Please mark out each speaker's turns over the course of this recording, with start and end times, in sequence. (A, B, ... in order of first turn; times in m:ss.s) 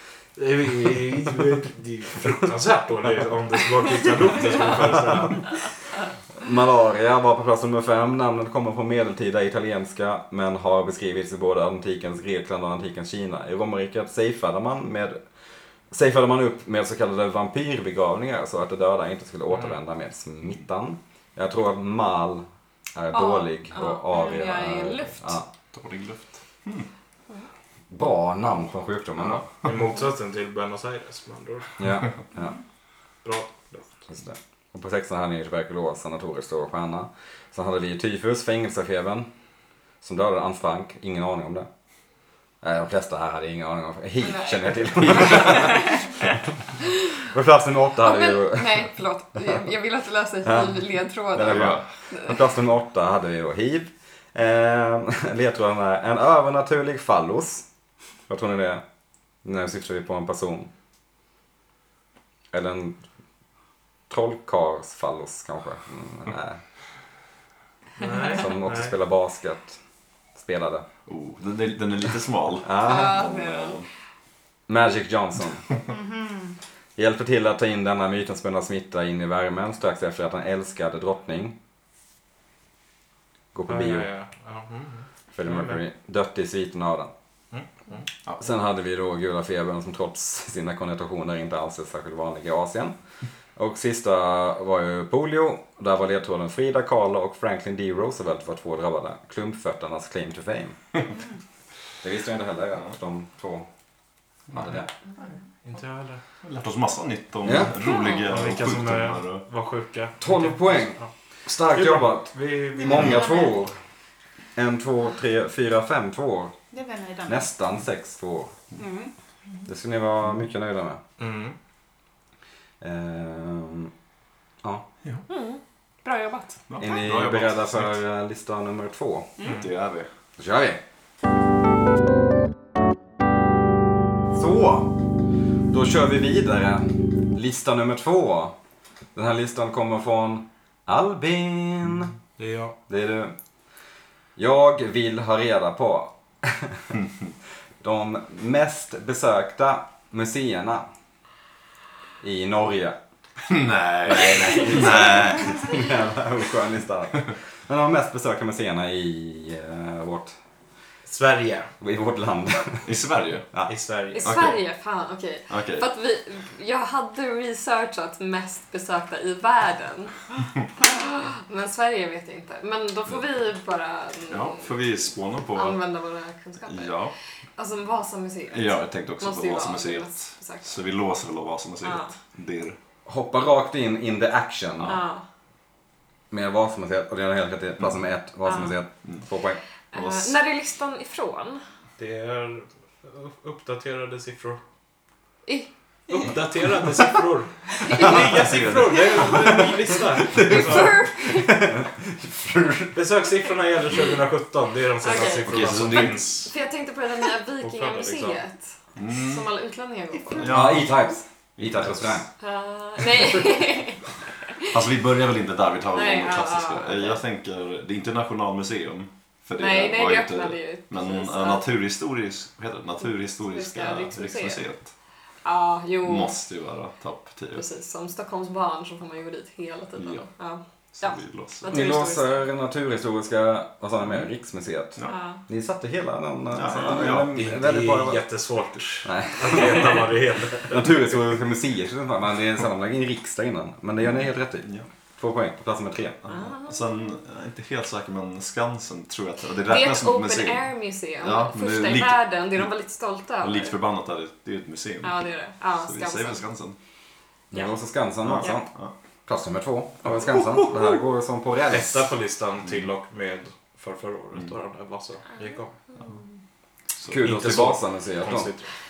0:00.4-0:05.6 A
0:06.4-0:15.2 B
0:15.9-0:25.5 B
0:23.1-0:25.3 C
0:25.7-0:26.9 D
0:27.9-0:29.5 B
0:29.6-0:31.8 A
0:31.8-0:32.5 B
0:33.2-0:33.9 A
0:34.1-0:39.3 B
0:40.0-0:41.7 B
0:42.6-0:46.4 B
0:44.2-0:46.1 C
0:47.2-0:48.9 B
0:48.0-0:52.4 C
0:50.4-0:57.6 B
0:51.5-0:51.8 D
0:58.3-0:58.8 B
0:59.4-1:00.7 B
1:02.5-1:03.0 B
1:04.1-1:06.6 B
1:08.0-1:08.9 A
1:08.4-1:09.8 B
1:10.4-1:10.8 B
1:11.0-1:13.8 D
1:12.6-1:13.2 B
1:12.8-1:13.8 C
1:14.7-1:15.7 B
1:15.9-1:16.6 E
1:17.0-1:21.6 B
1:23.5-1:24.1 B
1:23.7-1:25.8 A
1:25.3-1:27.1 B
1:27.5-1:28.0 A
1:28.4-1:32.9 B
1:33.6-1:40.8 B
1:42.0-1:43.7 B
1:44.5-1:44.8 D
1:44.6-1:44.9 B
1:45.6-1:46.2 A
1:46.4-1:49.4 D
1:47.4-1:47.7 B
1:47.8-1:48.2 C
1:48.2-1:51.1 A
1:50.2-1:53.7 B
1:51.6-1:53.3 A
1:52.8-1:53.5 E
1:54.6-1:56.6 B
1:56.7-1:57.5 E
1:57.3-1:58.5 B
1:58.8-1:59.1 E
1:59.6-2:01.0 B
2:01.2-2:01.6 A
2:02.8-2:03.9 B
2:05.3-2:06.6 C
2:06.7-2:08.0 D
2:06.8-2:09.3 B
2:09.4-2:09.7 A
2:09.5-2:10.1 D
2:10.4-2:10.8 B
2:14.3-2:14.9 B
2:15.7-2:18.5 B
2:19.1-2:22.1 B
2:22.4-2:22.8 A
2:22.9-2:23.3 B
2:24.4-2:26.9 B
2:27.8-2:30.9 B
2:32.2-2:33.0 B
2:33.5-2:35.5 D
2:34.1-2:40.4 B
2:41.0-2:41.7 A
2:41.8-2:42.8 B
2:42.8-2:43.6 D
2:43.6-2:44.3 A
2:44.1-2:54.8 C
2:44.2-2:44.6 D
2:45.5-2:45.9 D
2:54.3-2:55.8 D
2:55.5-3:00.7 C
2:56.7-2:57.1 D
2:58.5-3:02.8 D
3:01.8-3:02.1 C
3:03.0-3:05.0 B
3:04.8-3:05.2 C
3:06.3-3:09.6 B
3:08.5-3:08.7 C
3:09.9-3:11.6 C
3:09.9-3:10.3 D
3:12.0-3:14.6 A
3:16.1-3:21.0 A
3:18.4-3:19.3 D
3:20.2-3:23.0 B
3:20.4-3:21.7 C
3:22.9-3:26.5 A
3:25.0-3:25.8 C
3:25.4-3:26.4 D
3:26.4-3:30.6 C
3:27.6-3:28.4 A
3:29.0-3:29.5 D
3:30.3-3:30.9 D
3:30.4-3:32.3 B
3:31.6-3:32.2 D
3:32.4-3:34.8 C
3:34.6-3:44.9 D
3:35.9-3:37.2 C
3:39.6-3:41.7 C
3:43.4-3:44.6 C
3:45.4-3:46.3 C
3:46.0-3:47.6 D
3:47.5-3:52.4 C
3:50.0-3:50.2 D
3:50.9-3:51.9 D
3:51.7-3:58.2 B
3:55.0-3:55.4 C
3:56.5-3:57.3 D
3:57.0-4:00.9 A
3:59.0-4:00.0 B
4:00.6-4:06.2 B
4:06.2-4:12.7 D
4:06.3-4:07.0 C
4:09.6-4:13.8 C
4:13.4-4:15.2 D
4:15.0-4:16.4 C
4:15.8-4:16.8 D
4:17.5-4:18.7 B
4:18.2-4:18.9 D
4:19.2-4:22.1 B
4:20.2-4:20.9 D
4:21.7-4:25.8 A
4:26.0-4:26.3 C
4:27.0-4:27.4 D
4:27.1-4:28.5 B
4:27.2-4:28.7 A